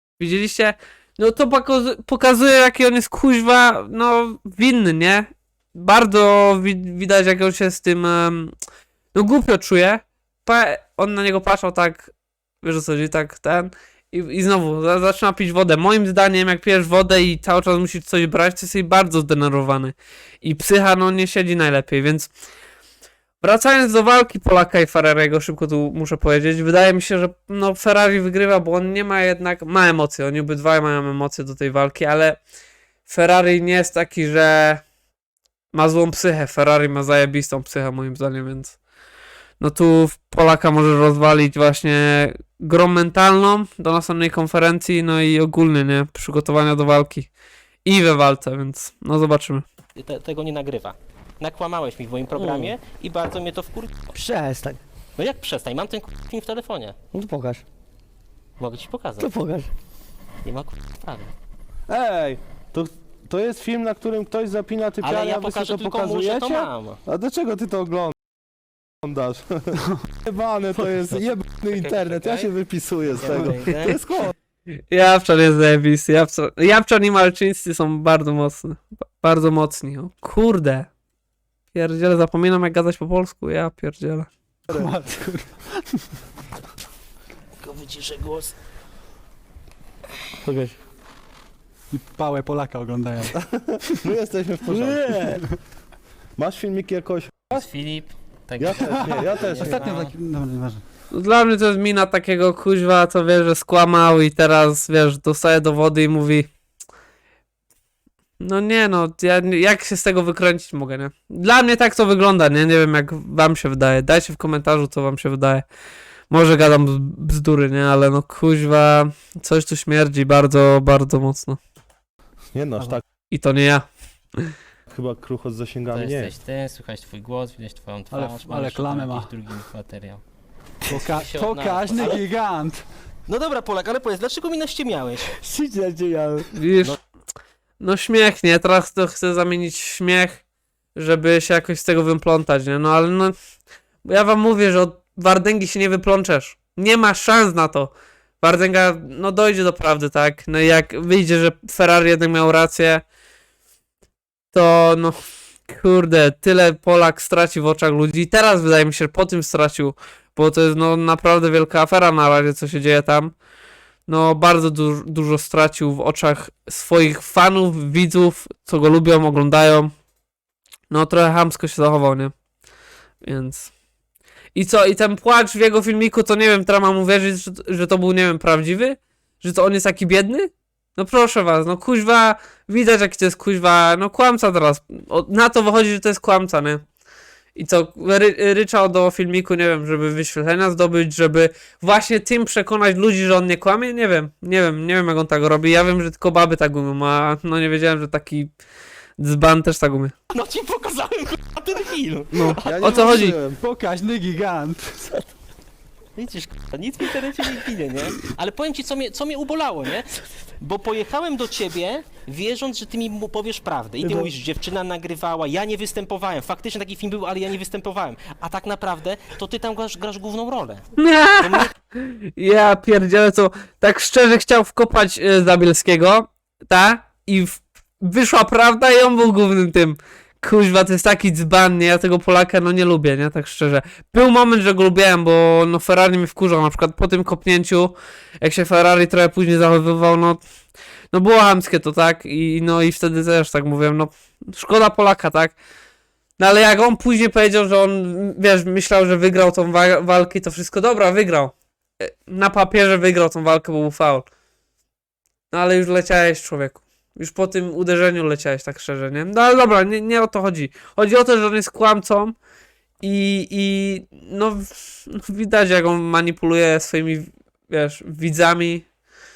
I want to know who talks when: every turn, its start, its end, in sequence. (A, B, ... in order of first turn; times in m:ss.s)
0:00.2-0:08.5 A
0:09.1-0:22.3 A
0:23.4-0:32.4 A
0:33.0-0:34.8 A
0:35.7-0:38.8 A
0:39.6-0:47.3 A
0:47.8-0:49.6 A
0:50.0-0:54.1 B
0:52.4-0:52.7 C
0:54.1-0:54.8 C
0:55.2-0:56.9 B
0:57.1-0:57.6 C
0:58.6-0:59.3 B
0:59.2-0:59.7 C
1:00.4-1:01.3 B
1:01.9-1:08.2 D
1:05.0-1:07.0 B
1:09.0-1:14.3 D
1:11.0-1:12.5 B
1:13.1-1:14.0 B
1:14.9-1:20.9 A
1:21.7-1:24.3 A
1:24.7-1:26.2 E
1:27.6-1:28.5 B
1:30.4-1:30.8 C
1:31.9-1:34.0 E
1:33.4-1:35.4 D
1:34.7-1:35.4 C
1:36.4-1:37.7 D
1:37.5-1:40.1 B
1:38.6-1:39.8 D
1:38.8-1:40.8 E
1:39.6-1:40.0 C
1:41.1-1:46.5 A
1:48.4-1:55.6 A
1:56.3-2:01.6 A
2:02.5-2:03.0 D
2:03.3-2:03.8 A
2:04.9-2:06.3 D
2:05.9-2:10.2 B
2:08.1-2:09.3 E
2:10.8-2:12.9 E
2:10.9-2:12.2 B
2:13.3-2:15.3 B
2:15.4-2:16.5 C
2:16.5-2:17.0 A
2:17.8-2:20.4 A
2:20.9-2:23.3 A
2:24.0-2:33.0 A
2:34.5-2:43.3 A
2:44.1-2:49.9 A
2:50.9-2:52.3 A
2:53.2-2:53.7 A
2:54.5-3:06.8 A
3:07.5-3:18.5 A
3:19.2-3:20.1 A
3:20.3-3:22.9 B
3:22.4-3:23.4 A
3:22.5-3:23.6 D
3:23.6-3:25.1 E
3:26.2-3:41.7 B
3:34.0-3:34.3 C
3:41.0-4:00.4 A
4:01.1-4:05.6 A
4:06.4-4:14.2 A
4:15.5-4:22.4 A
4:23.0-4:28.9 A